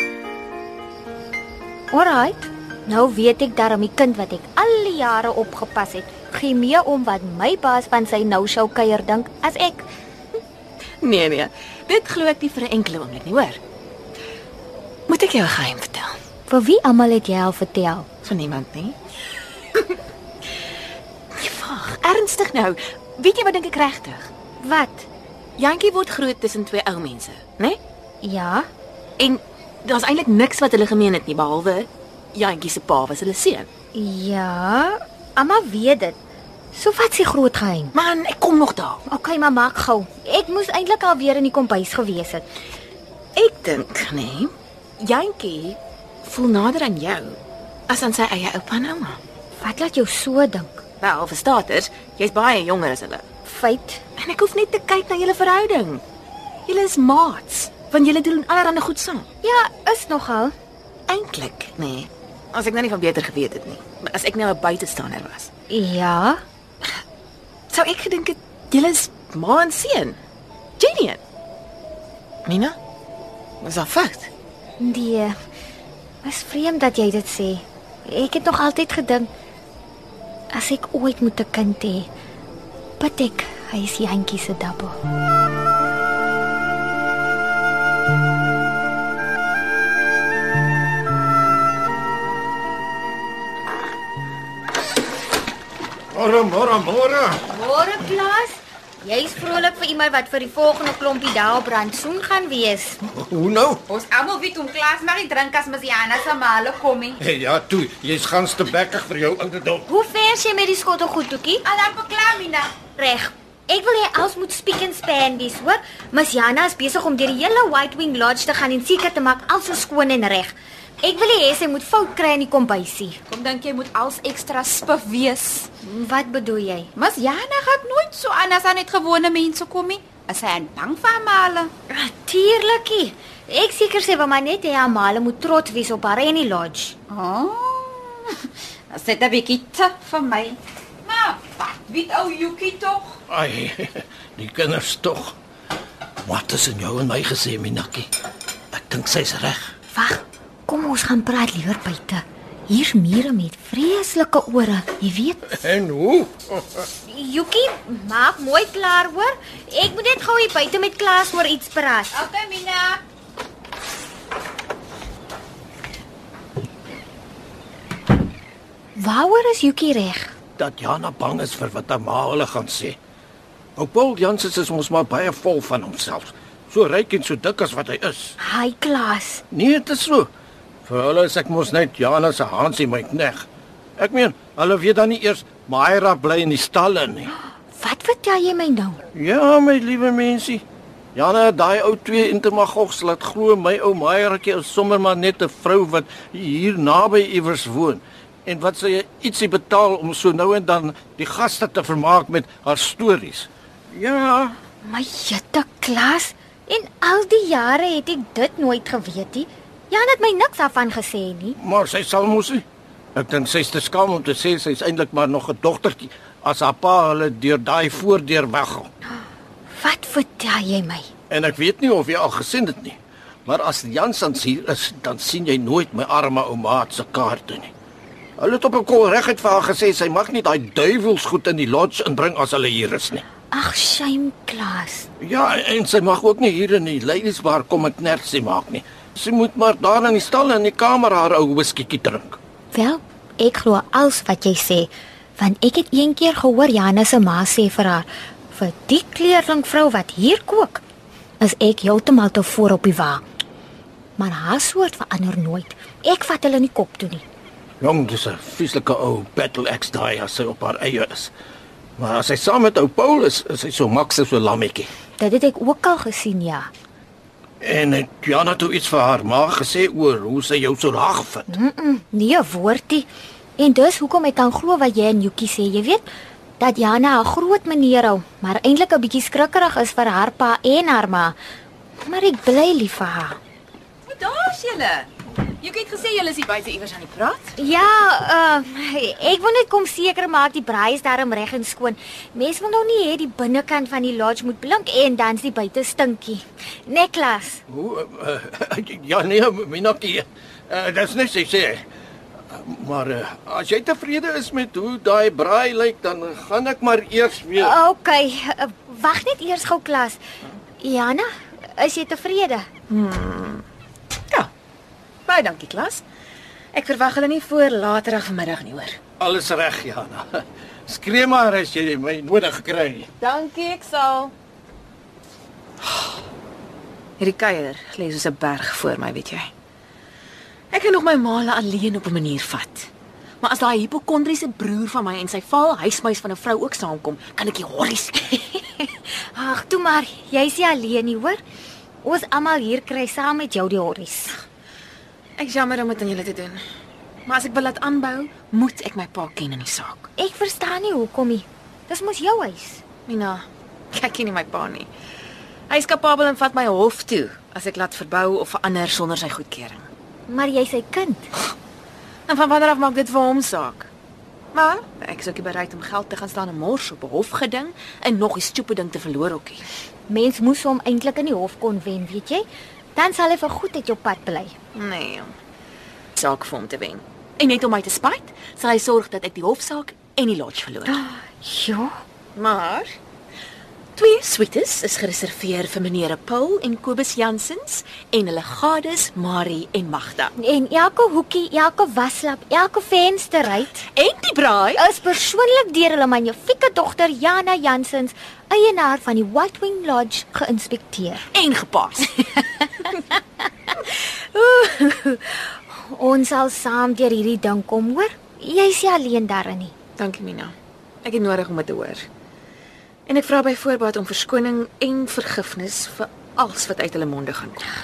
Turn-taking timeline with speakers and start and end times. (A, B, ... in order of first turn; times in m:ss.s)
0:01.9-0:09.8 A
0:11.0-0:13.6 B
0:15.1-0:16.2 B
0:16.5-0:18.1 A
0:18.2-0:19.0 B
0:21.3-0:24.3 B
0:24.6-0:25.1 A
0:25.6-0:27.8 B
0:28.2-0:28.7 A
0:29.2-0:33.7 B
0:33.9-0:36.2 A
0:36.7-0:37.9 A
0:37.9-0:39.0 B
0:39.1-0:42.4 A
0:43.4-0:47.4 B
0:47.9-0:49.2 B
0:49.6-0:50.8 A
0:51.0-0:53.2 B
0:53.4-0:54.0 A
0:54.2-0:56.0 B
0:56.7-0:59.3 B
0:59.4-1:00.5 A
1:01.1-1:05.5 B
1:05.7-1:06.4 A
1:07.7-1:10.2 B
1:10.8-1:11.2 B
1:12.4-1:12.8 B
1:13.6-1:14.3 B
1:14.8-1:15.3 A
1:16.2-1:19.3 A
1:20.5-1:22.1 A
1:23.0-1:25.0 A
1:36.1-1:37.4 C
1:37.5-1:43.0 A
1:43.1-1:43.8 C
1:43.9-1:47.2 D
1:47.2-1:49.8 C
1:49.9-1:51.6 A
1:51.6-1:52.7 D
1:52.9-2:03.2 A
2:03.3-2:05.7 D
2:05.8-2:06.9 A
2:07.0-2:11.7 D
2:11.9-2:16.9 A
2:17.1-2:23.2 D
2:23.3-2:25.4 C
2:26.2-2:28.1 C
2:28.7-2:29.7 C
2:29.9-2:35.6 A
2:35.6-2:36.8 C
2:37.0-2:42.2 A
2:42.1-2:43.0 D
2:49.0-2:50.3 A
2:50.6-2:53.0 C
2:53.8-2:58.3 C
2:58.4-2:59.4 A
2:59.5-3:00.3 C
3:00.8-3:03.4 C
3:04.0-3:07.3 C
3:07.7-3:09.0 A
3:09.1-3:10.6 C
3:11.1-3:24.6 C
3:24.8-3:31.6 A
3:31.6-3:32.6 C
3:33.2-3:38.9 C
3:39.7-3:41.1 A
3:41.3-3:47.7 C
3:48.4-3:53.2 C
3:53.5-3:55.1 A
3:55.2-4:02.4 C
4:02.7-4:10.8 A
4:11.4-4:13.2 A
4:14.2-4:17.2 A
4:17.8-4:21.3 C
4:22.0-4:24.9 C
4:25.2-4:26.7 A
4:27.6-4:31.4 C
4:31.5-4:33.1 A
4:33.6-4:36.0 A
4:36.6-4:41.4 A
4:42.0-4:43.4 A
4:44.1-4:45.1 D
4:45.6-4:46.3 D
4:46.0-4:47.5 B
4:47.6-4:57.6 A
4:57.7-5:01.8 C
5:02.5-5:07.7 C
5:07.6-5:10.2 A
5:10.8-5:12.7 A
5:12.9-5:13.6 B
5:15.3-5:16.0 B
5:16.7-5:19.0 B
5:19.2-5:20.3 C
5:20.9-5:23.1 C
5:23.2-5:24.3 B
5:27.2-5:29.5 B
5:30.7-5:32.9 B
5:33.4-5:38.4 B
5:38.8-5:41.4 A
5:42.0-5:44.4 A
5:45.4-5:46.6 B
5:47.2-5:50.1 B
5:50.2-5:52.8 A
5:53.1-5:54.9 B
5:55.7-5:59.9 B
6:00.3-6:01.3 A
6:02.3-6:03.9 B
6:04.5-6:09.6 B
6:10.1-6:14.5 A
6:14.7-6:15.3 B
6:16.2-6:21.0 B
6:20.9-6:21.9 A
6:22.4-6:22.9 B
6:24.0-6:30.3 B
6:30.4-6:33.8 A
6:33.9-6:34.8 B
6:34.8-6:41.3 A
6:41.3-6:42.2 B
6:43.8-6:49.7 A
6:50.0-6:52.0 B
6:53.1-6:57.6 B